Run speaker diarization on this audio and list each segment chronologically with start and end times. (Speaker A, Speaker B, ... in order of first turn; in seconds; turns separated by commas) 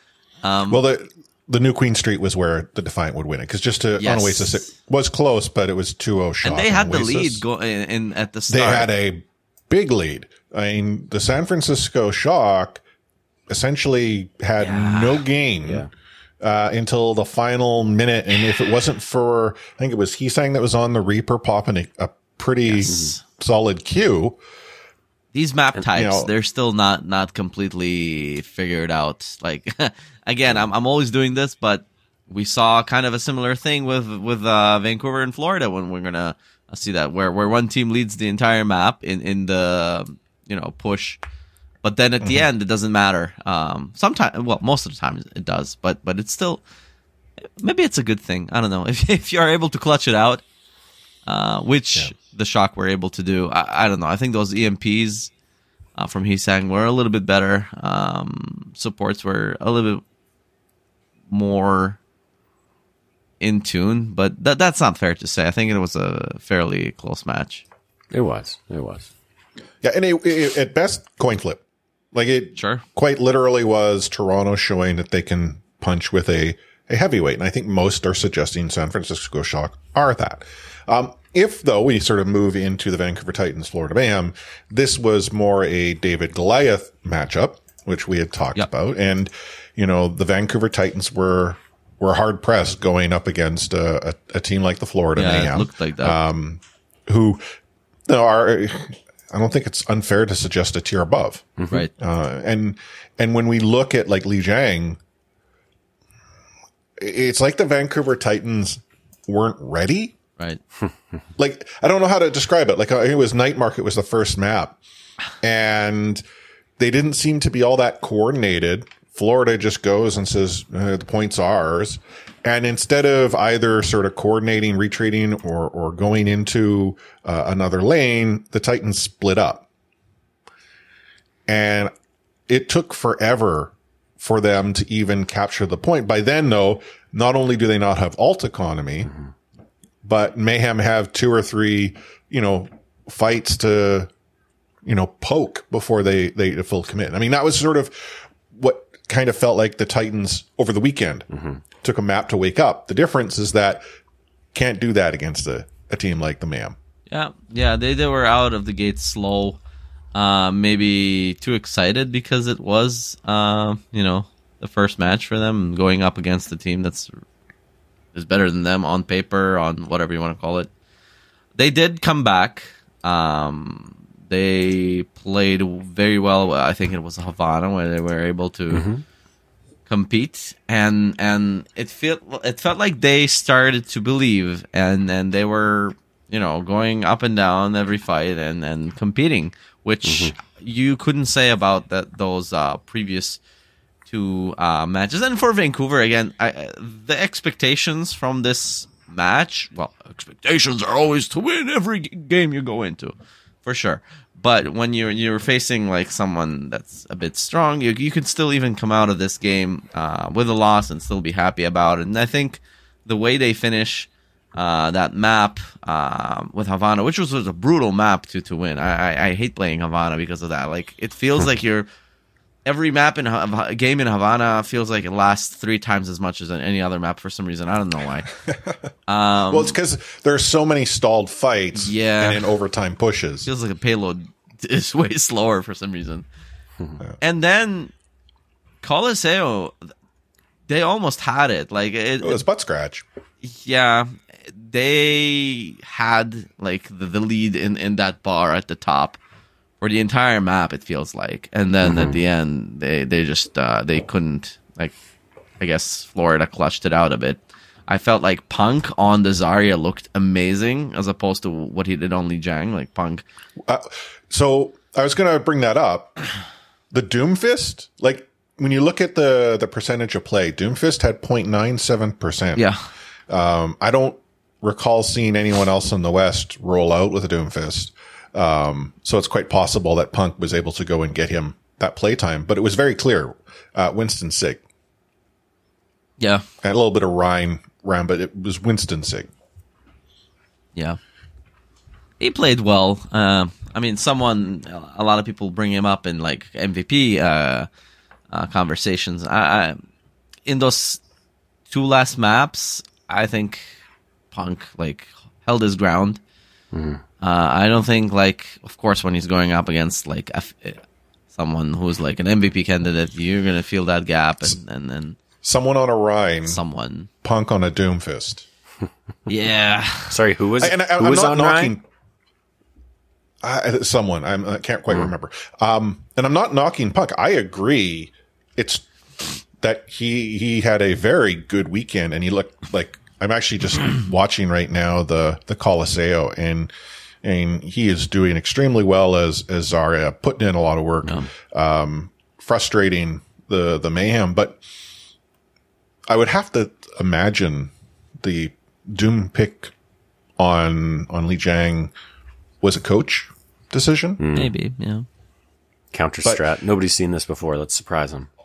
Speaker A: 0.4-0.8, Speaker B: 0.7-7.4, Speaker A: 4.0-4.7, Speaker A: 6.4-8.9, Speaker B: 8.5-12.8, Speaker B: 13.5-15.9, Speaker A: 14.6-15.2, Speaker C: 15.6-15.9, Speaker B: 16.4-24.4, Speaker A: 22.6-23.2, Speaker C: 22.9-23.1, Speaker A: 25.3-41.2, Speaker B: 25.9-26.3, Speaker A: 41.8-46.6, Speaker A: 47.6-50.4, Speaker A: 51.2-55.3, Speaker A: 56.0-60.0, Speaker A: 61.3-62.0, Speaker A: 63.4-67.6, Speaker C: 68.1-69.1, Speaker B: 69.8-71.6, Speaker B: 72.1-97.5, Speaker A: 72.6-72.8, Speaker A: 95.1-96.2, Speaker B: 98.1-105.0, Speaker C: 101.6-101.8, Speaker B: 107.0-110.1, Speaker B: 111.4-114.8, Speaker B: 115.4-116.2, Speaker B: 116.8-129.7, Speaker B: 131.5-131.9, Speaker B: 132.5-139.1, Speaker B: 140.0-144.1, Speaker B: 144.8-151.3, Speaker C: 151.3-151.6, Speaker B: 151.8-153.8, Speaker B: 154.5-156.8, Speaker A: 157.1-159.6, Speaker A: 160.1-167.1, Speaker A: 168.1-170.7, Speaker A: 171.6-178.8, Speaker C: 178.7-179.0, Speaker A: 179.9-193.4, Speaker C: 190.0-190.3, Speaker A: 194.1-221.9, Speaker A: 222.6-228.3, Speaker B: 228.5-228.8, Speaker A: 229.1-229.7, Speaker B: 229.5-233.5, Speaker A: 231.7-232.4, Speaker A: 233.4-236.2, Speaker A: 237.2-237.9, Speaker A: 238.8-239.7, Speaker A: 240.7-242.4, Speaker B: 242.2-243.0, Speaker A: 243.4-249.2, Speaker A: 249.8-254.9, Speaker C: 251.8-252.2, Speaker A: 255.6-263.2, Speaker B: 263.6-266.2, Speaker B: 266.9-272.6, Speaker A: 272.5-272.8, Speaker B: 273.3-284.6, Speaker A: 286.2-286.4, Speaker B: 286.6-289.3, Speaker A: 292.2-297.7, Speaker A: 298.3-299.8, Speaker A: 300.4-301.0, Speaker A: 301.7-303.8, Speaker A: 304.3-306.2, Speaker C: 306.7-307.0, Speaker A: 307.2-310.8, Speaker A: 311.3-315.2, Speaker B: 315.4-316.6, Speaker A: 316.5-317.1, Speaker B: 317.2-318.4, Speaker A: 319.3-320.2, Speaker C: 320.1-321.8, Speaker B: 320.6-321.8, Speaker B: 323.4-336.7, Speaker B: 337.2-344.6, Speaker B: 346.1-349.7, Speaker B: 350.4-351.9, Speaker B: 352.6-354.2, Speaker C: 354.2-354.5, Speaker A: 354.3-355.1, Speaker C: 355.9-358.3